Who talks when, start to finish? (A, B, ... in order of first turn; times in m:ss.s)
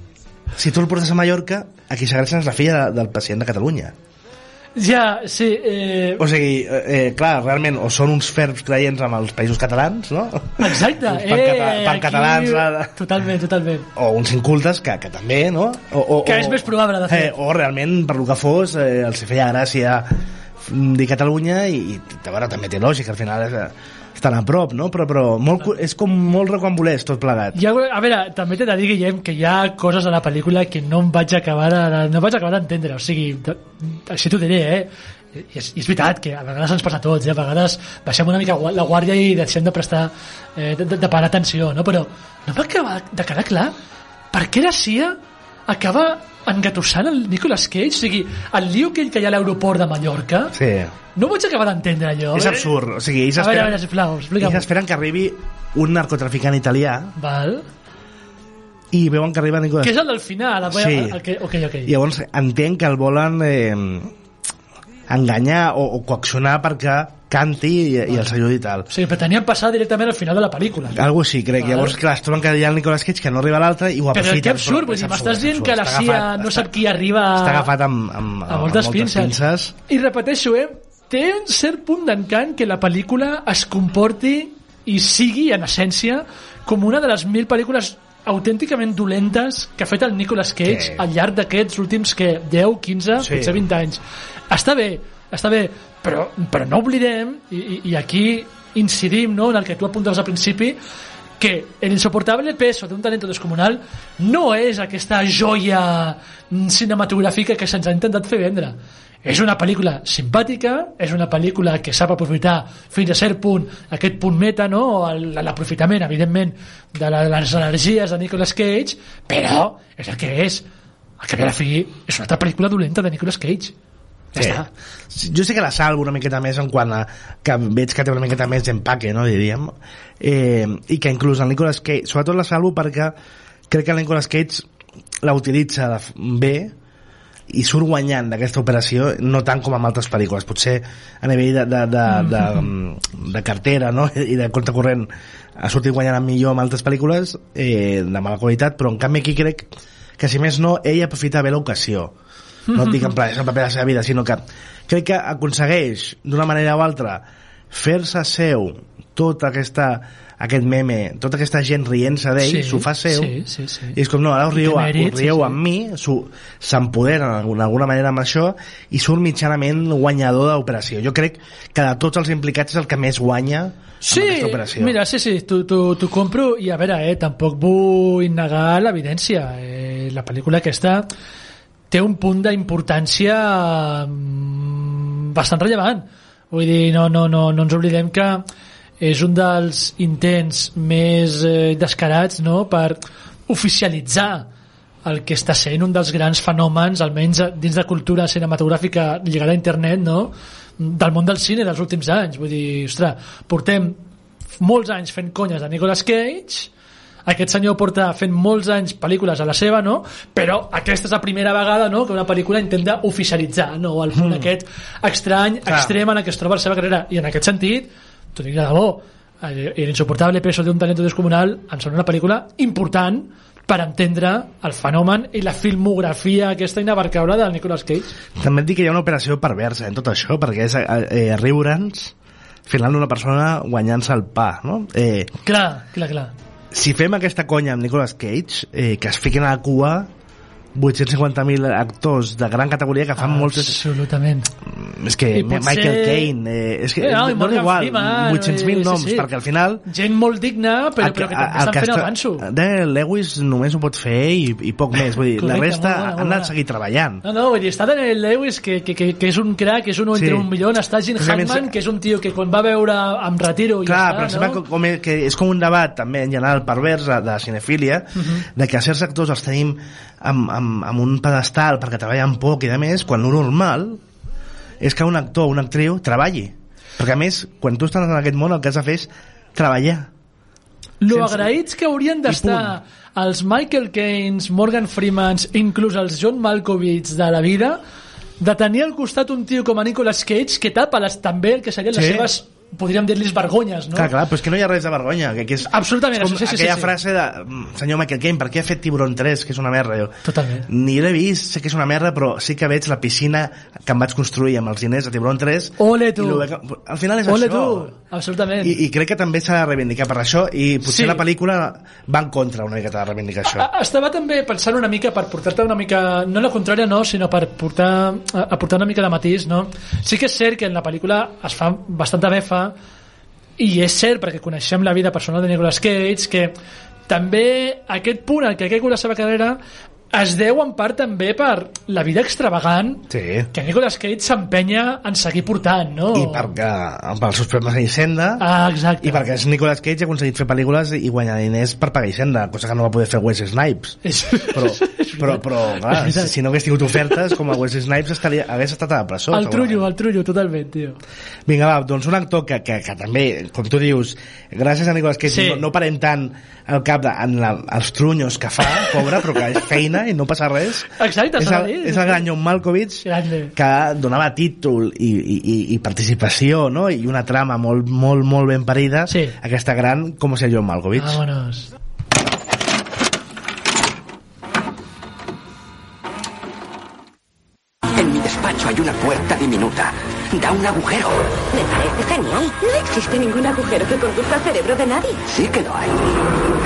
0:00.5-0:04.0 A
0:04.8-0:06.2 B
0:06.2-0:13.0 A
0:10.6-0:13.9 B
0:14.0-0:27.6 A
0:16.2-0:17.4 B
0:27.5-0:43.8 B
0:44.3-0:45.2 B
0:45.7-0:50.5 B
0:50.5-0:50.9 A
0:51.2-0:52.7 B
0:52.3-0:53.8 A
0:53.4-0:54.7 B
0:54.4-0:57.1 A
0:57.2-0:57.7 B
0:58.9-1:00.0 A
0:59.8-1:01.9 B
1:00.7-1:01.2 A
1:01.9-1:04.1 A
1:05.1-1:08.9 A
1:08.1-1:08.4 B
1:08.9-1:11.0 B
1:10.9-1:16.7 A
1:11.6-1:12.0 B
1:14.1-1:17.7 B
1:17.3-1:19.8 A
1:18.5-1:19.3 B
1:19.9-1:40.8 B
1:30.6-1:31.0 A
1:33.2-1:33.6 A
1:41.4-2:00.6 B
2:01.2-2:03.7 B
2:04.3-2:04.7 B
2:04.4-2:13.2 A
2:13.7-2:14.7 A
2:15.2-2:16.7 A
2:17.5-2:32.1 A
2:22.2-2:22.6 B
2:32.7-2:33.1 B
2:32.7-2:43.4 A
2:42.4-2:44.0 B
2:43.9-2:55.0 A
2:44.5-2:45.6 B
2:54.0-3:01.1 B
3:01.9-3:08.4 B
3:09.0-3:14.5 B
3:15.0-3:24.0 B
3:24.6-3:26.7 B
3:27.3-3:48.1 B
3:34.1-3:34.5 A
3:35.6-3:36.0 A
3:48.4-3:52.1 A
3:52.7-3:55.3 A
3:55.4-3:56.3 B
3:56.7-4:00.1 A
4:00.8-4:03.8 A
4:03.2-4:04.5 B
4:04.7-4:09.8 A
4:05.3-4:06.3 B
4:07.0-4:09.3 B
4:09.8-4:12.4 B
4:11.0-4:17.2 A
4:15.4-4:16.5 B
4:17.2-4:24.6 B
4:20.1-4:20.5 A
4:21.2-4:21.7 A
4:23.8-4:34.0 A
4:28.2-4:28.4 B
4:34.8-4:40.1 A
4:41.0-4:47.8 B
4:41.1-4:41.5 A
4:42.3-4:42.8 A
4:48.4-4:54.1 B
4:51.9-4:52.3 A
4:54.0-5:07.9 A
4:55.6-4:56.9 B
5:00.2-5:00.7 B
5:05.8-5:06.5 B
5:07.3-5:08.8 B
5:08.6-5:13.7 A
5:10.8-5:11.2 B
5:13.5-5:22.7 B
5:23.6-5:26.5 B
5:27.1-5:29.6 B
5:30.1-5:36.5 B
5:33.1-5:33.5 A
5:36.1-5:38.5 A
5:38.4-5:39.3 B
5:39.0-5:44.0 A
5:44.0-5:46.3 B
5:44.5-5:49.8 A
5:47.1-5:47.3 B
5:49.3-5:51.0 B
5:51.5-6:11.2 A
5:55.3-5:55.6 B
6:01.0-6:02.2 B
6:03.0-6:03.5 B
6:09.1-6:09.4 B
6:11.0-6:11.7 B
6:18.0-6:21.3 C
6:21.5-6:25.2 D
6:25.3-6:26.1 C